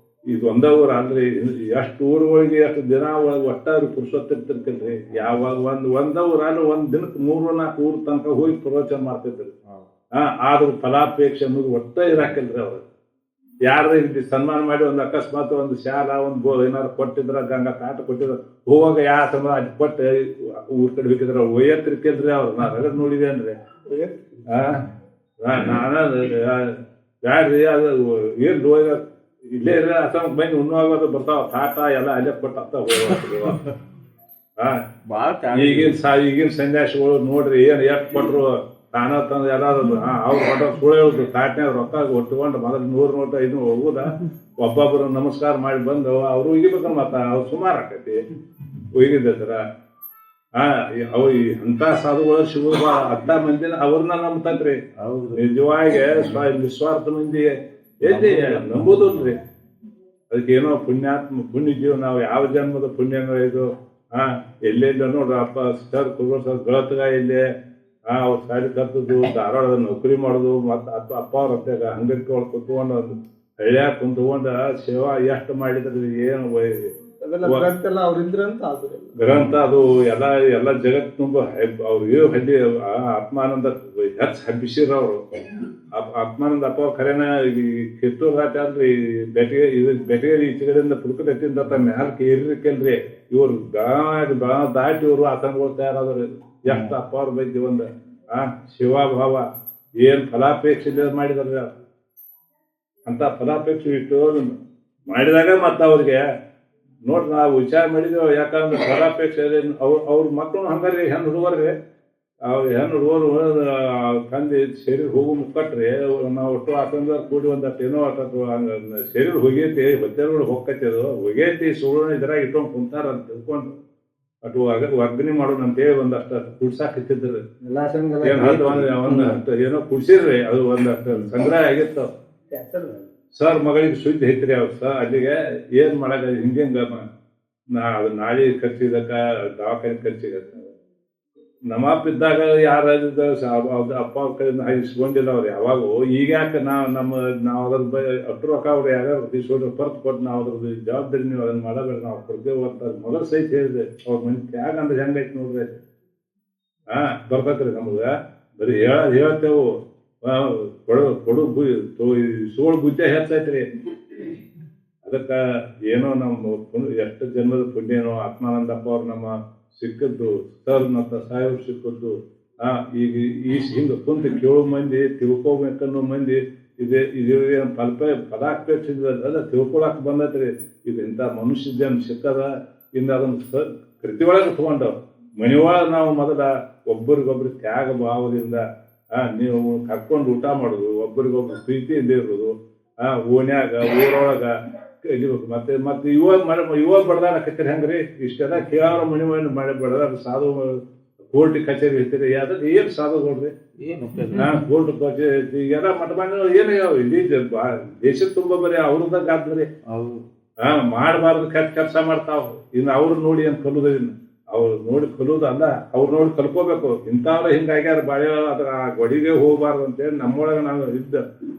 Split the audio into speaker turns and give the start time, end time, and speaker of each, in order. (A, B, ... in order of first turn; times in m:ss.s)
0:00.3-0:09.5 A
0:10.2-0:12.8 A
0:13.6-0:23.6 A
0:23.9-0:24.2 B
0:24.5-0:24.8 A
0:25.4-0:33.7 A
0:35.0-0:36.0 C
0:35.5-0:48.2 A
0:48.8-0:49.6 A
0:50.6-0:54.8 A
0:55.0-0:55.4 C
0:55.3-0:59.4 A
0:58.0-0:59.3 C
1:00.3-1:07.4 A
1:08.1-1:17.6 A
1:17.2-1:19.2 B
1:19.1-1:25.2 A
1:19.3-1:19.6 C
1:25.9-1:39.4 A
1:36.7-1:36.9 C
1:40.0-1:41.7 A
1:43.0-1:44.6 A
1:45.1-1:46.2 A
1:47.0-1:51.7 A
1:52.5-2:03.8 A
2:04.4-2:07.4 A
2:07.6-2:09.4 B
2:08.2-2:12.1 A
2:12.5-2:13.0 B
2:13.4-2:17.0 A
2:17.7-2:20.7 A
2:21.7-2:35.8 A
2:36.9-2:44.3 A
2:45.0-3:08.6 A
3:09.1-3:20.8 A
3:21.3-3:23.5 A
3:23.8-3:24.6 C
3:24.3-3:29.7 A
3:29.9-3:30.2 C
3:30.6-3:41.2 A